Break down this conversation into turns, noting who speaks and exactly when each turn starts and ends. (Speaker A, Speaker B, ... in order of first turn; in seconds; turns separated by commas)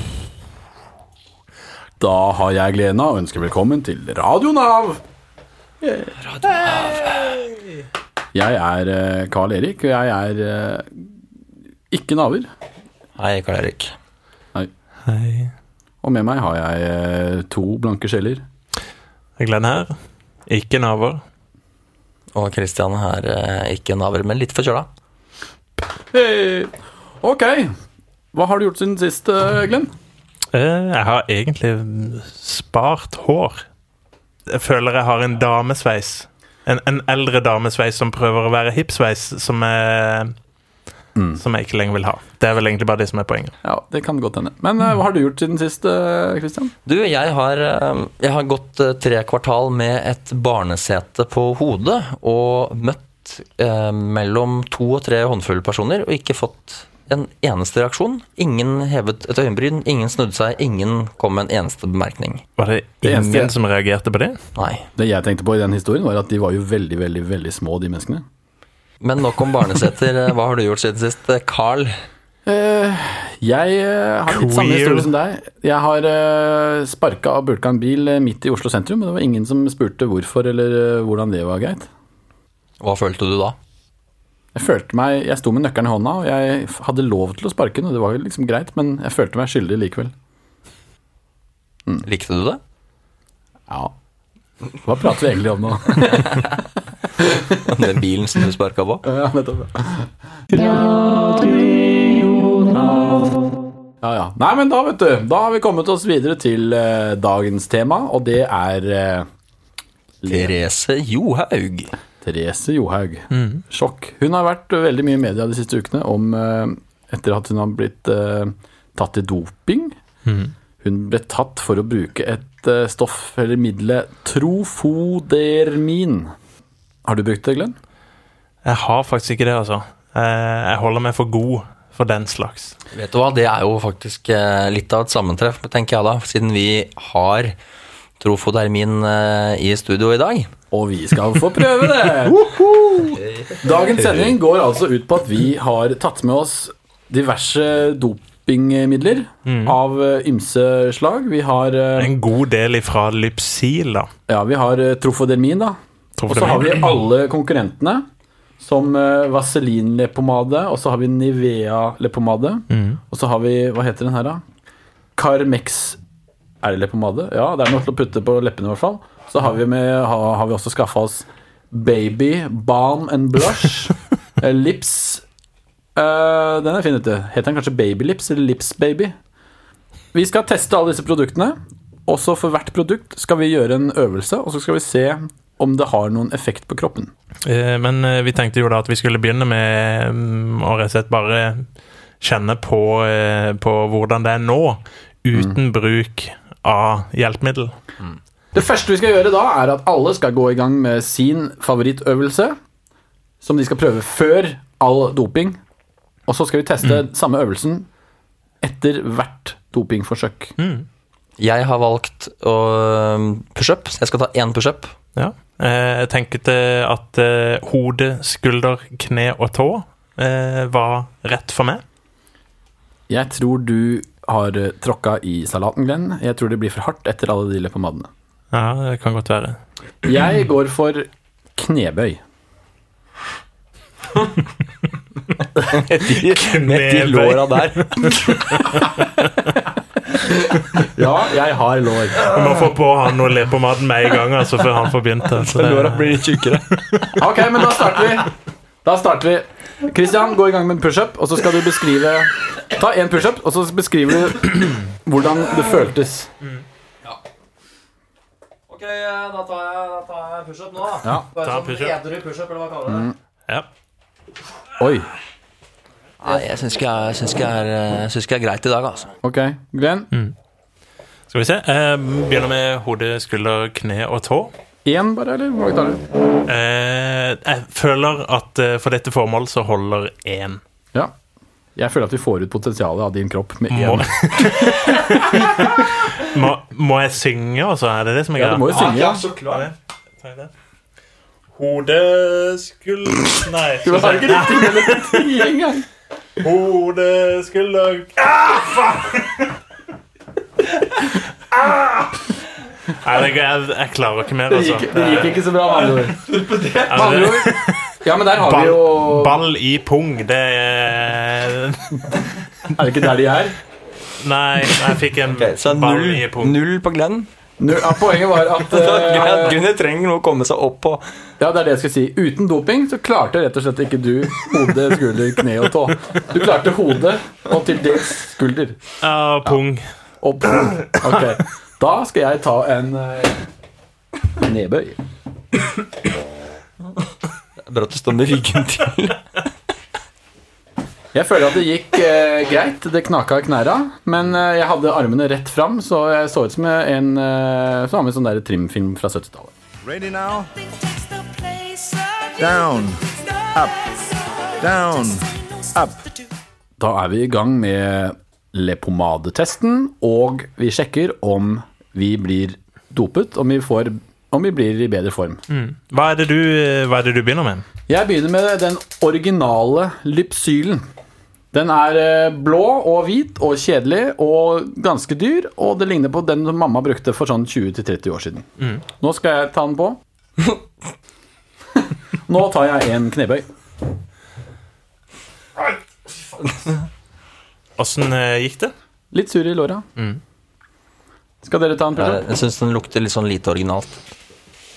Speaker A: 2.0-5.0, Speaker A: 5.8-6.2, Speaker B: 6.2-7.4, Speaker C: 6.5-7.8, Speaker A: 8.3-11.0, Speaker A: 11.9-12.5, Speaker B: 13.2-13.9, Speaker C: 15.1-15.5, Speaker A: 16.0-18.4, Speaker C: 19.4-19.9, Speaker C: 20.5-21.2, Speaker B: 22.4-24.9, Speaker A: 26.1-27.7, Speaker A: 28.3-29.9, Speaker C: 30.5-33.6, Speaker C: 34.5-40.3, Speaker A: 41.2-41.4, Speaker C: 41.4-43.5, Speaker A: 43.6-46.7, Speaker B: 46.9-62.4, Speaker C: 62.6-64.4, Speaker A: 63.0-63.5, Speaker B: 64.5-64.9, Speaker A: 65.0-68.2, Speaker B: 69.0-71.9, Speaker A: 72.5-81.9, Speaker C: 74.3-75.1, Speaker B: 82.8-83.6, Speaker A: 84.5-90.1, Speaker B: 92.0-92.6, Speaker A: 94.8-96.6, Speaker A: 97.2-97.8, Speaker B: 97.6-99.0, Speaker A: 99.0-100.9, Speaker B: 100.6-103.4, Speaker A: 104.0-109.3, Speaker A: 110.2-110.5, Speaker B: 110.3-111.9, Speaker A: 112.2-120.0, Speaker C: 113.3-113.6, Speaker C: 120.3-120.5, Speaker A: 120.8-126.3, Speaker A: 127.0-127.8, Speaker C: 128.7-132.8, Speaker B: 132.9-137.5, Speaker B: 138.2-140.5, Speaker A: 140.7-143.1, Speaker B: 142.9-143.4, Speaker A: 143.6-152.2, Speaker C: 149.5-149.8, Speaker C: 152.0-154.1, Speaker A: 154.3-158.0, Speaker C: 156.2-156.8, Speaker A: 158.6-164.4, Speaker C: 162.7-163.0, Speaker A: 165.2-166.0, Speaker A: 166.6-175.2, Speaker A: 175.9-179.1, Speaker A: 180.1-181.6, Speaker A: 182.1-187.1, Speaker C: 187.4-191.7, Speaker C: 192.2-197.8, Speaker A: 198.5-202.6, Speaker A: 203.4-205.6, Speaker A: 206.3-207.9, Speaker A: 208.6-210.5, Speaker C: 210.6-210.9, Speaker B: 211.4-214.9, Speaker C: 215.2-221.8, Speaker A: 223.1-228.1, Speaker C: 228.5-229.6, Speaker A: 230.0-232.2, Speaker B: 235.6-238.6, Speaker C: 236.0-239.1, Speaker A: 240.8-242.3, Speaker C: 242.2-246.3, Speaker B: 245.4-247.2, Speaker A: 247.2-248.3, Speaker A: 248.8-256.3, Speaker B: 258.7-263.1, Speaker C: 261.4-262.0, Speaker A: 262.9-263.1, Speaker A: 264.8-265.1, Speaker B: 266.2-269.1, Speaker A: 269.2-270.1, Speaker C: 271.3-274.5, Speaker A: 274.9-276.0, Speaker C: 276.5-280.6, Speaker A: 281.8-285.7, Speaker C: 283.7-290.5, Speaker A: 288.4-289.2, Speaker B: 288.7-289.7, Speaker C: 291.6-295.4, Speaker A: 293.8-295.9, Speaker C: 296.4-299.5, Speaker C: 300.9-302.1, Speaker C: 302.9-305.5, Speaker A: 304.5-306.3, Speaker B: 306.0-307.4, Speaker C: 306.9-312.3, Speaker A: 306.9-309.4, Speaker A: 312.7-313.6, Speaker C: 314.2-316.6, Speaker B: 315.3-317.3, Speaker A: 317.6-319.6, Speaker B: 318.5-321.0, Speaker A: 321.4-328.8, Speaker C: 329.0-329.9, Speaker A: 330.2-333.4, Speaker A: 334.4-335.0, Speaker B: 337.7-339.2, Speaker A: 341.1-349.5, Speaker D: 349.9-350.5, Speaker B: 350.9-352.4, Speaker D: 352.4-354.0, Speaker D: 354.6-356.0, Speaker A: 356.8-365.4, Speaker C: 365.5-367.6, Speaker A: 367.9-370.8, Speaker A: 371.5-380.0, Speaker A: 381.8-383.4, Speaker C: 387.8-388.7, Speaker A: 389.1-389.8, Speaker A: 391.4-392.2, Speaker B: 391.9-394.0